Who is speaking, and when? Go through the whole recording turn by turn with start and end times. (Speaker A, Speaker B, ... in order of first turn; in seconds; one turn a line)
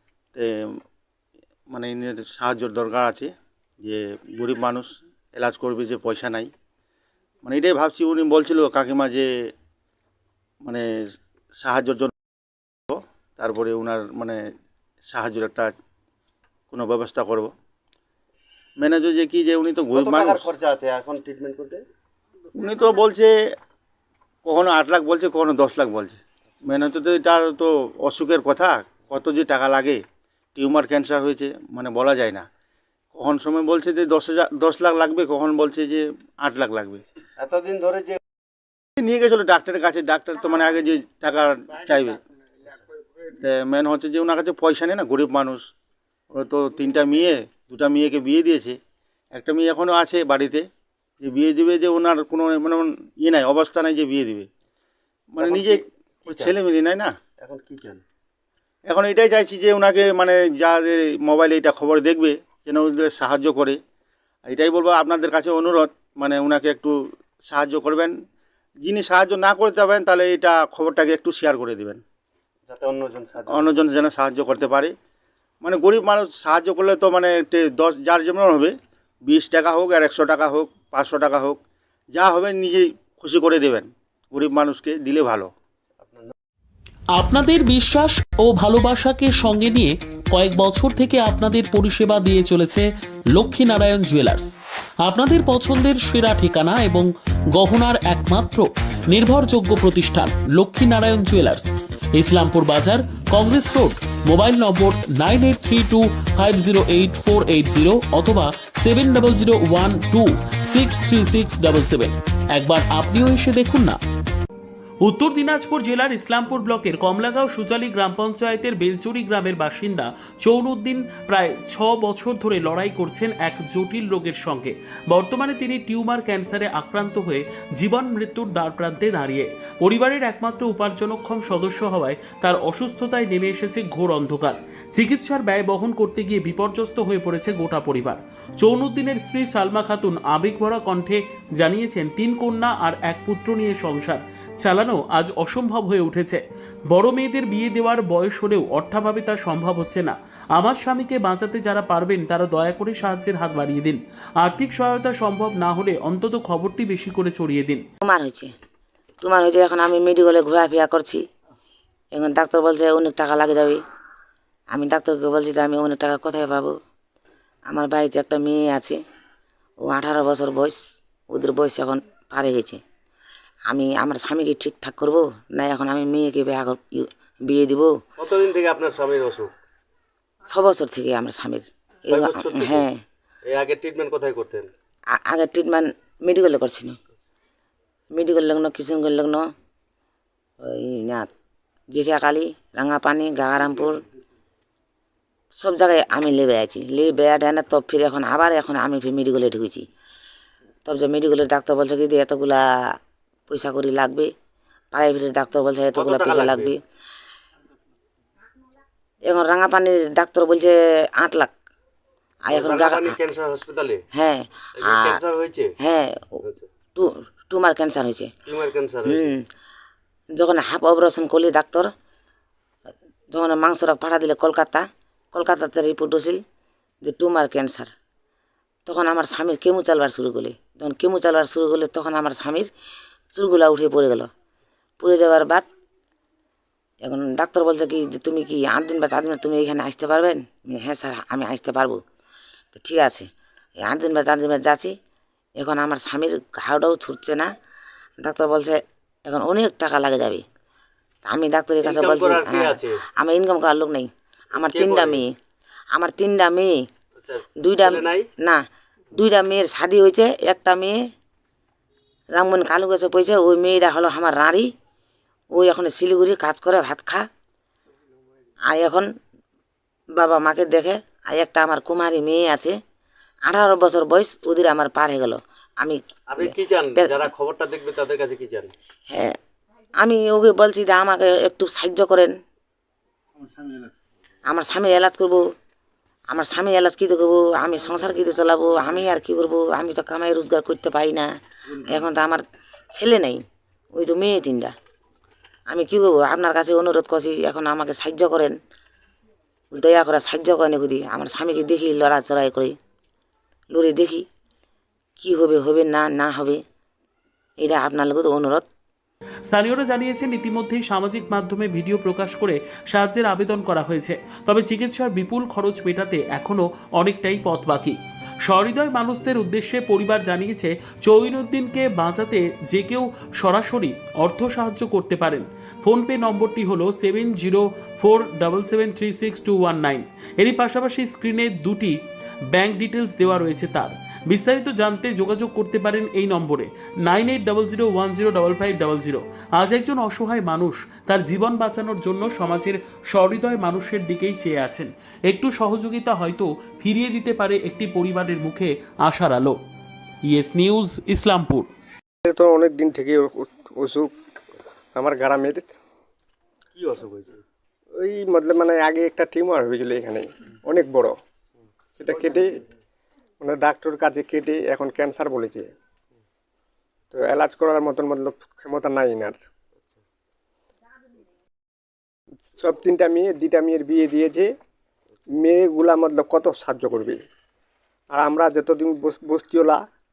Speaker A: 0.3-0.7
Speaker A: 1.7-6.5
Speaker A: 7.4-9.3
Speaker A: 11.6-12.1
Speaker A: 12.9-14.4
Speaker A: 15.1-15.7
Speaker A: 16.7-17.5
Speaker A: 18.8-20.5
Speaker B: 19.9-21.8
Speaker A: 22.6-23.3
Speaker A: 24.4-30.0
Speaker A: 30.6-32.5
Speaker A: 33.1-37.0
Speaker B: 37.4-38.2
Speaker A: 39.0-42.2
Speaker A: 43.4-45.6
Speaker A: 46.3-48.8
Speaker A: 49.3-50.7
Speaker A: 51.2-54.5
Speaker A: 55.3-57.2
Speaker B: 55.4-56.6
Speaker B: 57.4-58.0
Speaker A: 58.9-63.8
Speaker A: 64.5-68.2
Speaker A: 68.8-72.0
Speaker B: 72.7-73.8
Speaker A: 73.5-74.9
Speaker A: 75.6-81.6
Speaker A: 82.1-85.5
Speaker B: 86.0-86.3
Speaker C: 87.1-94.5
Speaker C: 95.0-114.0
Speaker C: 115.0-157.8
Speaker D: 158.0-158.5
Speaker D: 159.2-161.2
Speaker D: 162.1-163.8
Speaker D: 164.7-166.8
Speaker D: 167.7-169.0
Speaker D: 169.8-170.8
Speaker D: 171.3-172.8
Speaker D: 173.7-177.9
Speaker B: 178.2-179.5
Speaker D: 180.5-183.0
Speaker B: 182.1-182.9
Speaker B: 183.5-184.7
Speaker D: 185.1-187.0
Speaker D: 188.1-189.5
Speaker D: 190.6-191.3
Speaker D: 191.9-194.0
Speaker D: 195.6-199.9
Speaker D: 200.9-202.7
Speaker D: 203.5-204.3
Speaker D: 204.9-206.8
Speaker B: 205.9-206.8
Speaker D: 209.2-211.5
Speaker D: 212.5-213.2
Speaker B: 212.5-214.0
Speaker D: 214.1-215.2
Speaker B: 214.8-215.7
Speaker D: 215.8-216.3
Speaker B: 216.4-216.7
Speaker D: 216.9-218.3
Speaker B: 218.5-219.3
Speaker D: 219.1-219.4
Speaker D: 220.4-221.9
Speaker D: 223.3-226.4
Speaker D: 227.0-227.9
Speaker D: 228.9-232.7
Speaker D: 233.3-234.3
Speaker D: 235.0-235.7
Speaker D: 237.0-242.0
Speaker D: 242.8-243.3
Speaker D: 243.8-244.9
Speaker D: 245.6-247.5
Speaker D: 248.2-250.4
Speaker D: 251.3-255.3
Speaker B: 251.8-253.0
Speaker B: 254.6-255.2
Speaker D: 255.9-256.8
Speaker B: 257.2-258.3
Speaker D: 257.6-258.6
Speaker D: 259.1-261.0
Speaker D: 262.4-264.7
Speaker D: 265.5-267.3
Speaker D: 268.7-269.1
Speaker D: 270.2-272.8
Speaker D: 273.5-277.3
Speaker B: 276.3-278.7
Speaker D: 279.1-279.4
Speaker D: 280.0-282.4
Speaker D: 284.5-285.4
Speaker D: 286.3-293.4
Speaker D: 293.9-294.7
Speaker D: 295.7-298.6
Speaker D: 299.7-302.8
Speaker D: 303.7-304.3
Speaker D: 305.2-306.6
Speaker D: 307.6-308.7
Speaker C: 309.5-332.0
Speaker C: 332.5-349.6
Speaker C: 350.3-351.7
Speaker E: 352.2-354.1
Speaker E: 354.9-355.7
Speaker B: 356.7-357.4
Speaker E: 358.0-361.1
Speaker E: 362.0-362.6
Speaker E: 363.4-365.7
Speaker E: 367.1-369.4
Speaker E: 372.6-374.5
Speaker E: 375.4-377.2
Speaker E: 378.1-379.8